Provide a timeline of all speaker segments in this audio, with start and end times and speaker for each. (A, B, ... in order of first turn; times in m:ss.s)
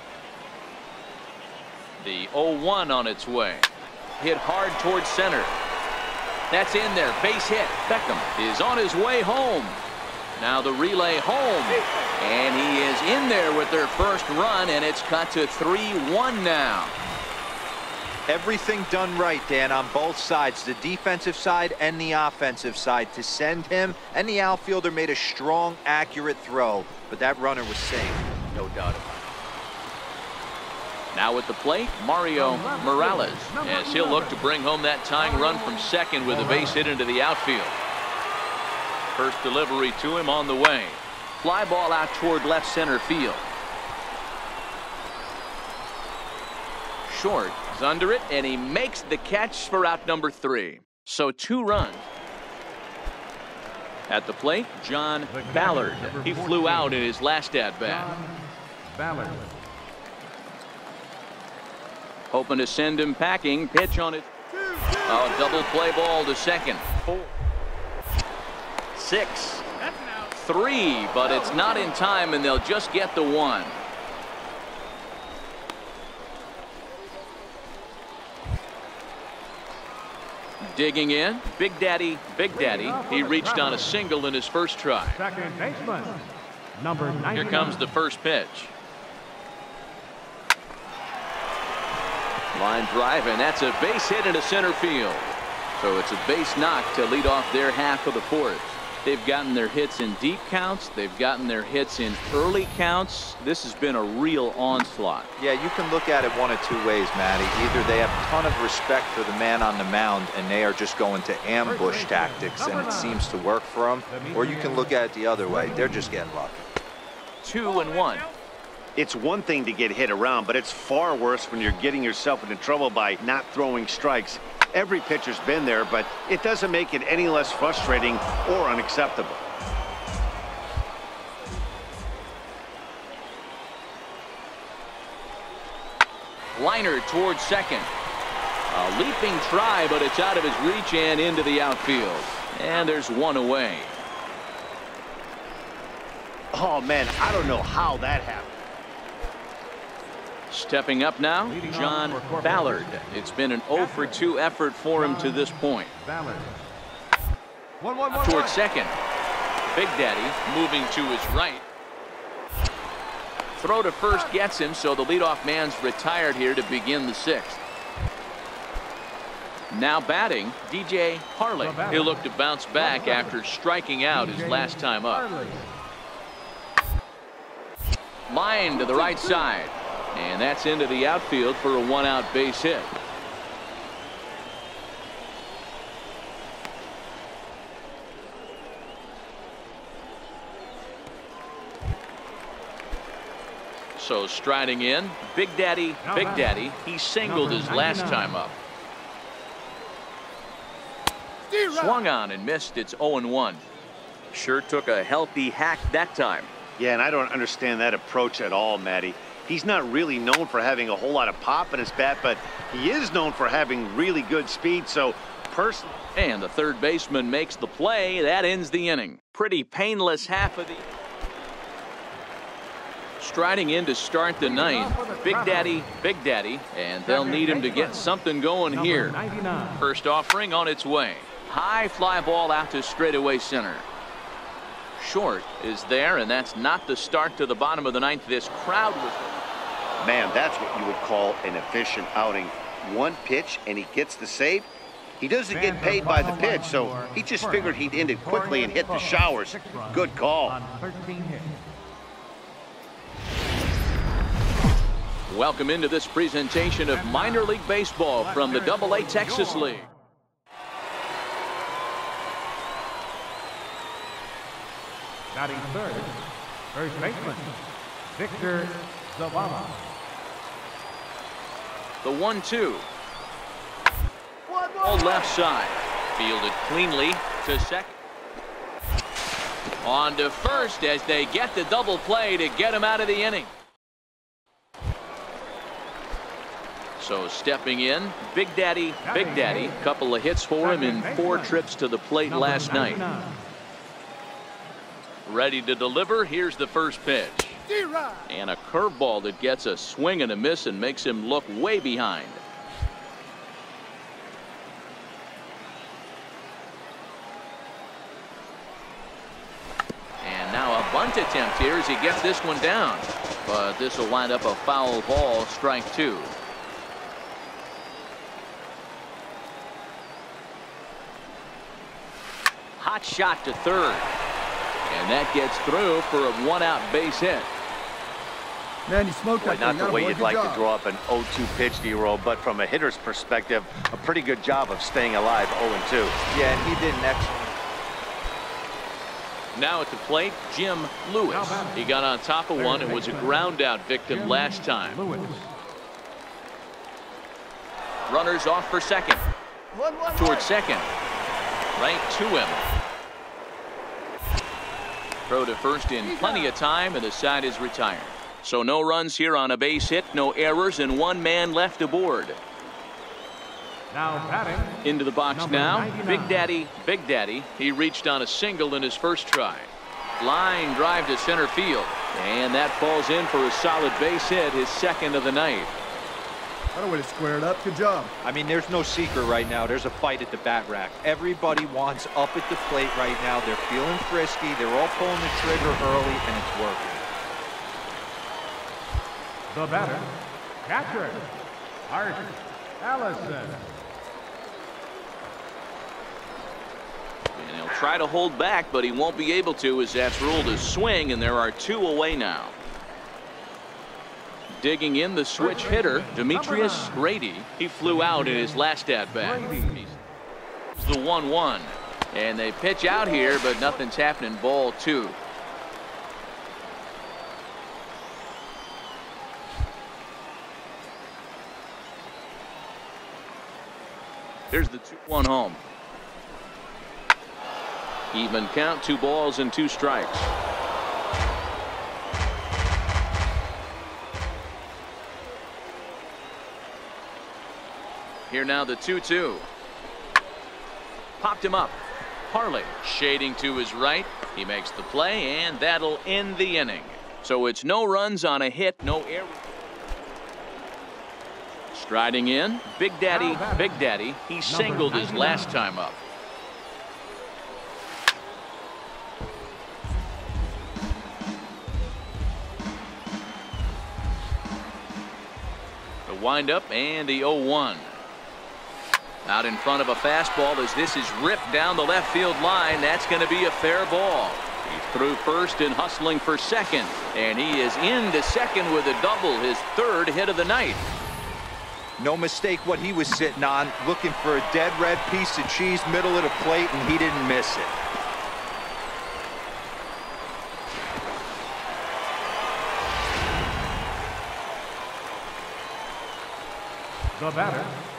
0:02.0-0:05.6 A
0:06.5-0:09.8 A
0:10.4-0:17.0 A
0:18.3-0:28.3 B
0:28.5-0:29.1 A
0:31.1-0:37.8 A
0:32.5-0:34.2 C
0:39.1-0:43.5 A
0:47.0-0:52.0 A
0:54.1-0:58.1 A
0:55.3-0:56.8 C
0:57.8-0:58.3 C
0:58.9-0:59.5 C
1:02.3-1:04.3 A
1:04.6-1:05.0 D
1:05.0-1:07.3 A
1:08.9-1:09.7 A
1:10.2-1:13.8 A
1:20.6-1:25.2 A
1:22.7-1:23.8 C
1:25.2-1:26.2 C
1:26.8-1:27.6 C
1:27.3-1:28.7 A
1:32.5-1:45.3 A
1:45.4-1:56.6 B
1:51.6-1:53.1 C
1:54.1-1:54.8 C
1:57.4-1:58.3 A
1:59.0-2:09.4 E
2:16.5-2:17.9 A
2:18.7-2:24.0 A
2:26.5-2:28.5 E
2:30.5-2:35.9 A
2:31.5-2:32.8 C
2:37.8-2:38.5 D
2:38.1-2:39.0 A
2:39.7-2:41.6 A
2:43.6-2:47.6 A
2:49.7-2:55.3 A
2:51.6-2:51.9 C
2:52.8-2:53.2 C
2:54.2-2:54.6 C
2:55.1-2:55.6 C
2:58.3-3:02.9 A
3:14.0-3:18.6 A
3:17.5-3:17.9 C
3:21.6-3:23.6 A
3:24.3-3:26.5 A
3:26.8-3:35.9 E
3:36.1-3:40.9 A
3:43.2-3:49.2 A
3:44.6-3:45.6 C
3:47.1-3:47.8 C
3:48.9-3:49.7 C
3:49.7-3:53.9 A
3:55.0-3:59.4 A
4:00.0-4:10.6 E
4:05.5-4:11.5 C
4:15.3-4:19.8 A
4:18.4-4:19.6 C
4:25.3-4:26.1 C
4:26.7-4:27.5 C
4:28.2-4:29.7 C
4:32.0-4:32.9 A
4:34.5-4:34.9 D
4:34.8-4:38.0 A
4:39.8-4:43.5 A
4:47.0-4:53.0 A
4:52.5-4:53.3 C
4:55.2-4:57.6 A
4:58.2-5:02.4 A
5:10.2-5:16.3 A
5:22.8-5:24.1 A
5:24.9-5:27.5 A
5:28.9-5:30.6 D
5:29.4-5:36.1 E
5:36.3-5:37.6 B
5:39.5-5:45.0 A
5:41.4-5:41.7 C
5:45.0-5:45.4 C
5:48.1-5:49.2 A
5:49.7-5:50.2 D
5:50.0-5:50.9 A
5:51.8-5:52.7 A
5:55.3-6:02.4 A
6:03.9-6:04.8 C
6:04.8-6:15.7 A
6:05.5-6:06.1 C
6:16.7-6:18.1 D
6:18.2-6:27.0 B
6:29.5-6:30.0 C
6:30.6-6:31.2 C
6:31.9-6:32.3 C
6:32.8-6:33.6 C
6:37.3-6:42.6 A
6:44.5-6:50.0 A
6:49.2-6:49.6 C
6:50.7-6:55.2 A
7:04.5-7:05.6 A
7:08.1-7:10.3 A
7:18.3-7:19.5 A
7:21.2-7:29.4 A
7:31.7-7:36.0 A
7:33.1-7:33.6 C
7:34.6-7:35.4 C
7:46.1-7:48.0 A
7:49.2-8:00.8 A
8:02.0-8:07.7 B
8:17.3-8:17.6 C